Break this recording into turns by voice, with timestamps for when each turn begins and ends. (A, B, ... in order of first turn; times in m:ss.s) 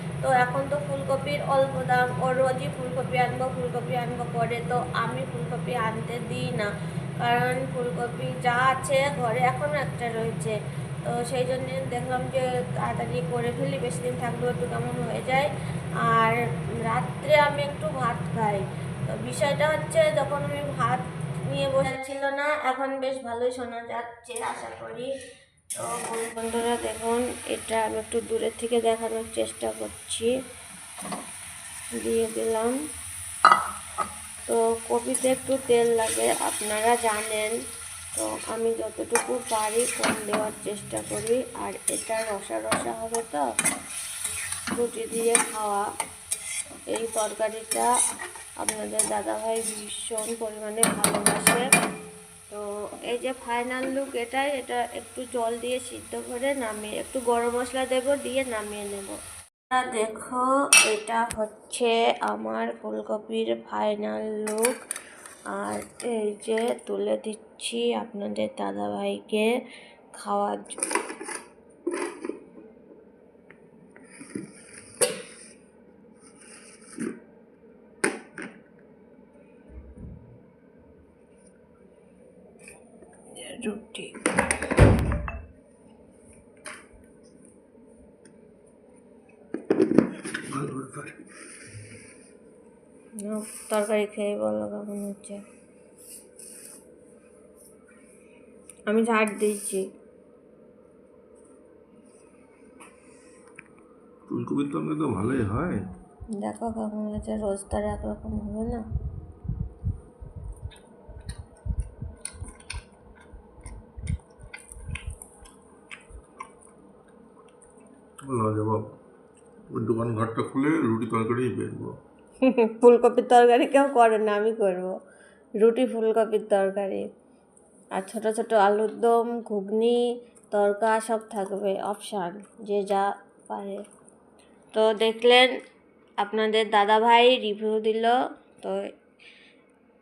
0:00.2-0:25.1 A
0:25.8-0:30.3 A
0:31.9-0:32.8 A
0:34.4-0:37.6 A
0:38.1-0:43.5 A
0:44.7-0:45.9 A
0:46.9-0:47.9 A
0:48.6-0:51.7 A
0:52.5-0:59.2 A
0:59.7-1:04.8 A
1:05.5-1:09.5 A
1:10.2-1:10.8 A
1:23.3-1:24.3 A
1:30.4-1:31.2 B
1:33.2-1:35.4 A
1:38.9-1:39.9 A
1:44.3-1:45.9 B
1:46.4-1:48.8 A
1:58.2-1:59.0 B
1:59.7-2:02.0 B
2:02.4-2:05.0 A
2:05.6-2:07.1 A
2:07.9-2:13.8 A
2:14.7-2:15.5 A
2:16.2-2:18.9 A